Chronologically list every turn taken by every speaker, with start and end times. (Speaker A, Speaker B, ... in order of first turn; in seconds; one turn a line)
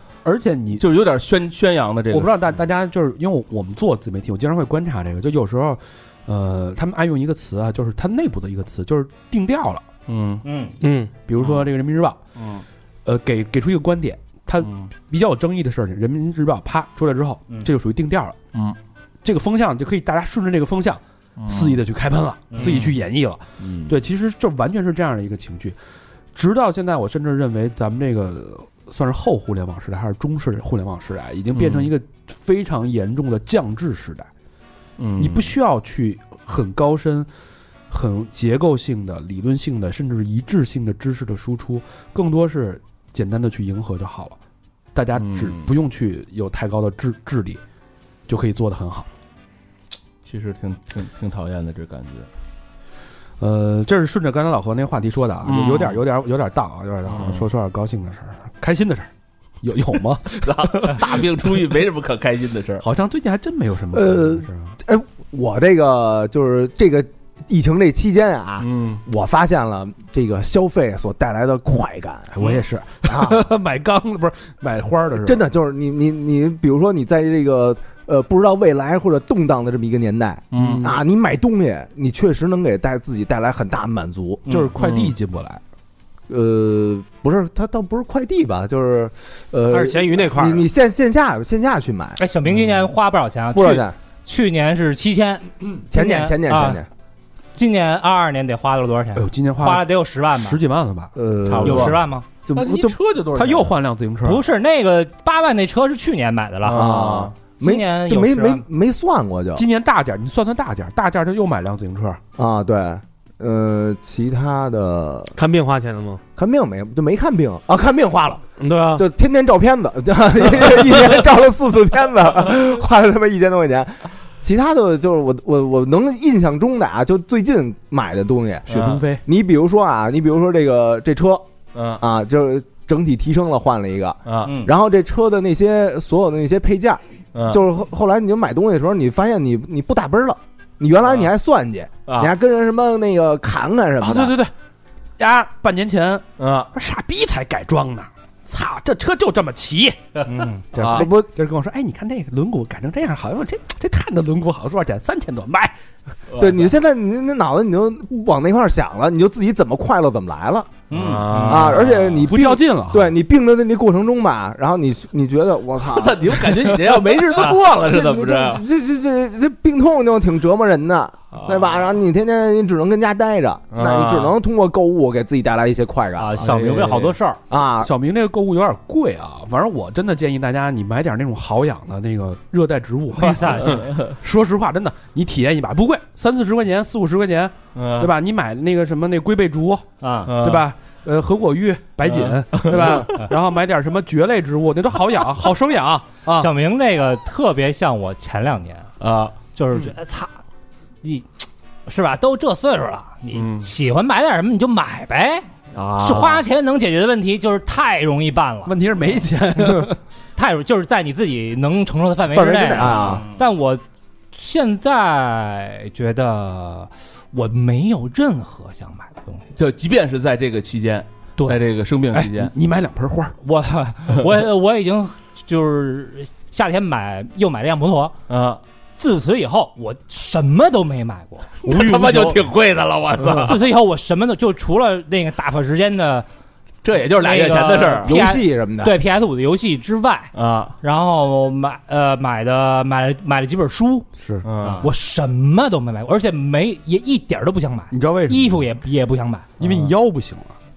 Speaker A: 0.2-0.8
Speaker B: 0.8-2.3
Speaker A: 2.1-9.9
Speaker B: 10.1-10.4
Speaker C: 10.4-10.7
Speaker D: 10.8-11.1
Speaker A: 11.3-12.2
Speaker A: 13.1-18.4
Speaker B: 14.6-14.9
Speaker A: 19.2-25.8
Speaker B: 22.6-22.9
Speaker A: 26.3-34.3
Speaker B: 31.6-31.9
Speaker B: 35.0-35.5
Speaker A: 35.2-37.3
Speaker A: 37.9-44.4
Speaker A: 44.9-47.6
Speaker B: 45.2-45.7
Speaker A: 48.3-49.1
Speaker B: 50.2-52.3
Speaker A: 53.4-59.1
Speaker B: 55.5-56.0
Speaker B: 57.1-57.4
Speaker A: 59.6-61.1
Speaker B: 60.4-62.8
Speaker A: 62.8-64.7
Speaker E: 63.9-72.4
Speaker B: 68.6-69.0
Speaker A: 72.3-75.4
Speaker E: 73.0-73.4
Speaker E: 75.1-84.4
Speaker B: 80.5-80.9
Speaker A: 80.5-81.0
Speaker A: 84.5-85.6
Speaker B: 84.8-85.1
Speaker E: 86.3-92.2
Speaker D: 89.7-90.7
Speaker F: 92.2-96.8
Speaker E: 93.5-93.9
Speaker E: 95.9-96.9
Speaker F: 97.5-100.6
Speaker A: 99.1-101.9
Speaker E: 101.2-103.0
Speaker B: 101.5-101.9
Speaker F: 101.6-102.2
Speaker B: 102.5-103.7
Speaker A: 103.3-104.4
Speaker F: 104.2-107.0
Speaker B: 106.7-107.3
Speaker E: 106.7-109.6
Speaker F: 107.6-108.6
Speaker A: 109.5-112.2
Speaker E: 112.4-115.3
Speaker D: 115.3-116.2
Speaker E: 116.3-128.7
Speaker D: 118.6-119.0
Speaker A: 128.7-129.2
Speaker B: 128.7-129.1
Speaker E: 129.2-131.4
Speaker B: 131.7-132.0
Speaker E: 132.0-144.3
Speaker B: 134.2-134.6
Speaker C: 134.4-134.7
Speaker B: 137.3-137.6
Speaker B: 142.1-142.3
Speaker A: 144.0-144.5
Speaker A: 145.2-150.0
Speaker B: 146.4-146.7
Speaker B: 150.3-151.0
Speaker A: 150.7-155.8
Speaker E: 150.8-151.3
Speaker B: 156.3-156.6
Speaker E: 156.4-160.8
Speaker C: 160.9-161.4
Speaker B: 160.9-162.2
Speaker A: 161.3-163.1
Speaker E: 161.5-177.9
Speaker B: 165.8-168.6
Speaker B: 173.7-174.3
Speaker C: 176.2-177.4
Speaker A: 177.8-196.5
Speaker B: 183.8-184.1
Speaker B: 187.7-188.1
Speaker C: 190.0-190.3
Speaker B: 190.2-190.7
Speaker B: 192.1-193.1
Speaker F: 196.4-198.9
Speaker B: 199.0-199.3
Speaker F: 199.5-200.3
Speaker F: 201.9-205.4
Speaker B: 203.3-203.6
Speaker B: 205.7-206.4
Speaker F: 206.0-208.8
Speaker A: 208.6-210.0
Speaker F: 210.3-213.8
Speaker E: 212.3-213.2
Speaker F: 214.3-219.4
Speaker B: 219.5-222.5
Speaker A: 222.1-223.3
Speaker F: 223.4-228.1
Speaker B: 228.3-228.6
Speaker F: 229.0-231.8
Speaker B: 231.6-233.6
Speaker F: 233.4-236.3
Speaker B: 236.8-238.2
Speaker F: 237.1-244.1
Speaker E: 238.0-239.0
Speaker B: 240.3-240.7
Speaker A: 244.2-244.5
Speaker B: 244.4-244.8
Speaker F: 244.8-249.5
Speaker A: 247.9-248.7
Speaker A: 249.6-250.6